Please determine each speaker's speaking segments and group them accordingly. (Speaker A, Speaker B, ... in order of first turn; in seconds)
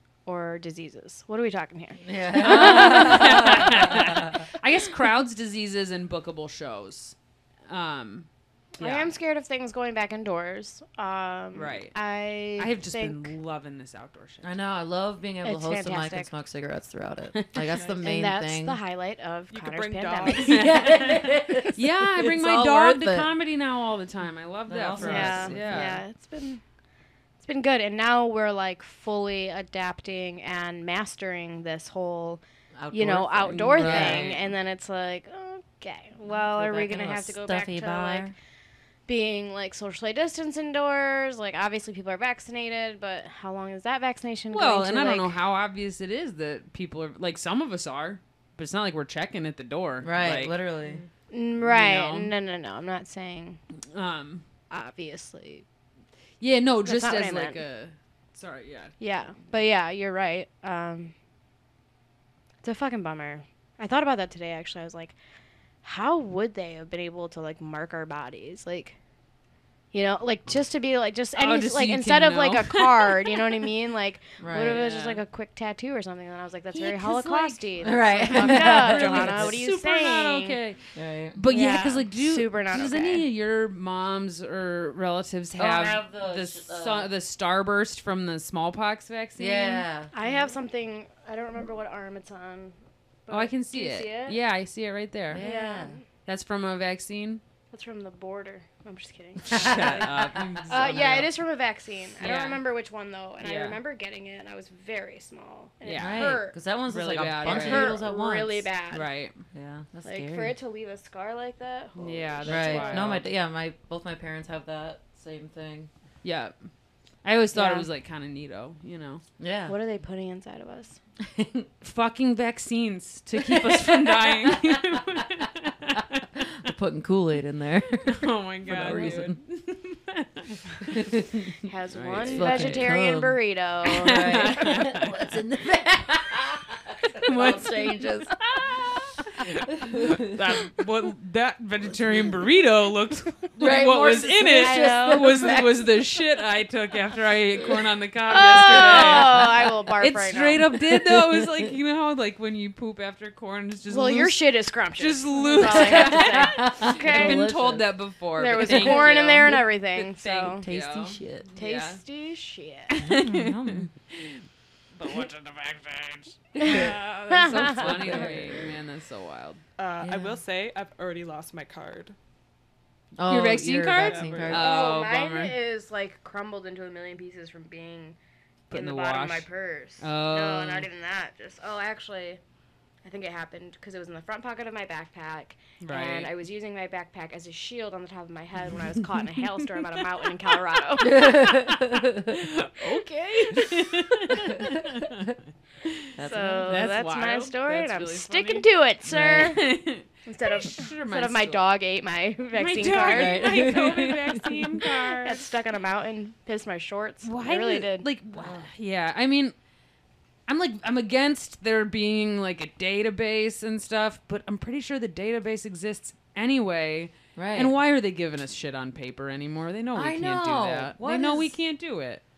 Speaker A: 0.2-4.0, 8.8-13.3, 15.4-16.3, 18.0-20.9, 25.0-26.6, 27.4-38.3, 39.1-45.4, 51.3-53.6, 54.7-55.6, 56.8-57.6, 59.0-61.1, 62.6-65.2, 65.8-69.0, 69.9-80.6, 81.5-83.2, 90.1-92.7, 93.2-94.4, 95.4-96.0, 97.7-106.6, 107.4-109.1, 110.0-113.1, 117.5-117.9, 119.7-121.0, 131.6-134.8, 144.5-145.3, 148.3-150.7, 153.9-157.5, 158.3-160.7, 161.6-163.2, 166.6-168.3, 174.5-178.2, 178.7-182.4, 183.0-191.6, 192.8-194.8, 196.2-199.6, 200.2-204.1, 205.2-208.1
Speaker B: 2.0-4.4, 14.4-18.8, 20.4-23.3, 24.7-26.0, 32.8-34.4, 36.3-38.3, 50.0-51.0, 74.4-74.8, 77.8-79.6, 80.9-81.4, 85.5-87.1, 89.4-90.5, 95.3-96.0, 99.5-100.7, 105.9-108.7, 109.5-110.5, 112.4-115.9, 119.4-119.7, 121.2-121.7, 123.4-125.2, 126.4-129.4, 130.8-131.4, 132.3-133.4, 133.9-138.4, 139.8-140.4, 143.6-145.9, 148.5-149.4, 150.8-151.7, 155.6-157.9, 158.5-159.6, 160.6-161.5, 163.1-163.9, 166.7-166.9, 167.7-168.6, 170.0-170.4, 173.2-174.9, 191.0-192.3, 196.2-196.8, 199.0-199.6, 203.0-204.6, 208.3-208.7, 217.3-217.7, 219.9-221.6
Speaker C: 2.4-7.2, 7.7-8.3, 8.8-9.1, 11.5-11.9, 12.6-14.5, 17.3-17.7, 20.5-26.0, 33.5-34.5, 44.5-50.5, 51.6-52.3, 53.9-54.4, 56.4-58.9, 71.3-73.4, 74.6-75.2, 76.7-80.8, 81.3-89.8, 93.3-95.4, 96.2-97.4, 99.5-101.3, 102.2-102.6, 103.4-103.8, 105.8-106.3, 106.9-108.0, 108.9-109.3, 112.0-113.2, 116.2-116.5, 117.2-119.2, 121.8-126.4, 128.0-131.0, 131.9-132.9, 133.9-135.2, 137.2-154.4, 155.0-162.0, 163.0-164.4, 164.9-169.6, 173.3-175.5, 178.7-179.4, 180.0-180.9, 185.8-186.3, 191.2-195.3, 196.6-198.7, 199.3-201.7, 202.5-205.5, 207.2-209.5, 210.5-222.2
Speaker D: 17.7-18.0, 19.5-20.8, 169.8-172.1, 173.9-174.6